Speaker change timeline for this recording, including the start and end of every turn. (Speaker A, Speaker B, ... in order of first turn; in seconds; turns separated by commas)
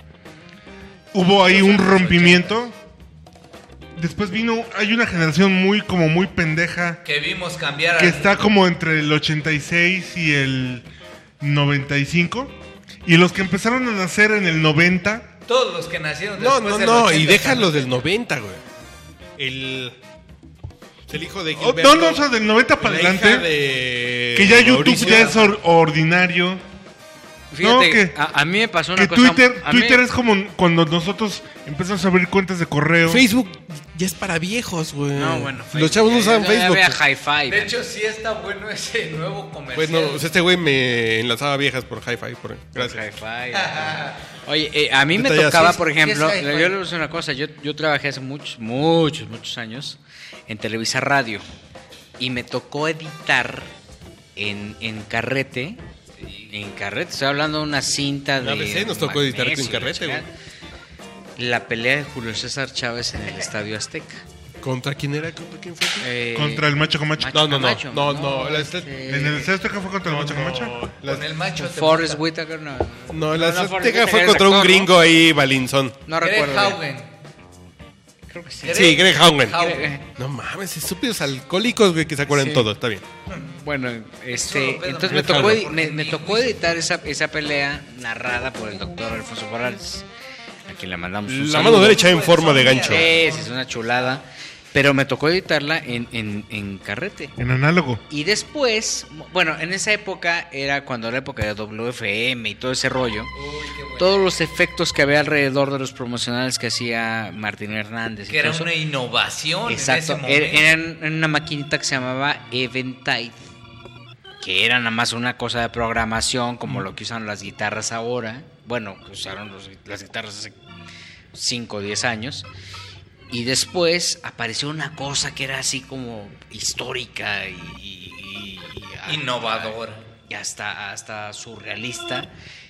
Speaker A: 1.1-2.8, Speaker B: 1.4-2.7, Speaker A: 3.9-7.0, Speaker C: 7.0-8.5, Speaker A: 8.0-10.8, Speaker A: 11.4-15.3, Speaker C: 15.4-17.9, Speaker D: 16.4-18.6, Speaker D: 19.4-20.0, Speaker D: 21.1-25.5, Speaker A: 21.6-23.5, Speaker A: 24.3-26.6, Speaker B: 27.5-30.0, Speaker A: 27.6-28.2, Speaker A: 28.9-33.2, Speaker D: 33.0-37.0, Speaker B: 35.1-37.7, Speaker C: 37.5-40.2, Speaker D: 39.7-43.0, Speaker B: 42.8-51.4, Speaker C: 43.5-44.2, Speaker D: 45.1-45.8, Speaker C: 45.7-46.8, Speaker B: 52.2-53.7, Speaker B: 54.4-55.8, Speaker C: 56.2-56.5, Speaker B: 56.5-60.3, Speaker D: 58.4-60.3, Speaker B: 61.4-64.2, Speaker D: 64.6-66.1, Speaker B: 66.0-69.5, Speaker A: 66.3-67.4, Speaker D: 67.3-69.0, Speaker A: 69.1-70.8, Speaker D: 70.0-71.3, Speaker C: 71.0-72.2, Speaker B: 71.6-74.9, Speaker D: 73.1-76.0, Speaker B: 76.0-76.8, Speaker C: 76.2-77.1, Speaker B: 78.3-79.0, Speaker C: 78.6-79.9, Speaker D: 78.7-79.6, Speaker B: 79.5-80.0, Speaker D: 80.2-83.0, Speaker B: 82.3-82.7, Speaker B: 83.3-90.0, Speaker C: 84.4-86.6, Speaker D: 85.1-85.7, Speaker B: 90.7-92.1, Speaker D: 91.2-93.2, Speaker C: 91.5-93.5, Speaker B: 92.8-97.3, Speaker A: 97.4-98.0, Speaker B: 98.1-103.3, Speaker C: 103.3-104.3, Speaker B: 104.0-108.7, Speaker C: 108.3-110.6, Speaker B: 109.7-113.4, Speaker B: 114.4-120.5, Speaker B: 121.3-122.5, Speaker B: 123.3-132.3, Speaker C: 129.1-130.1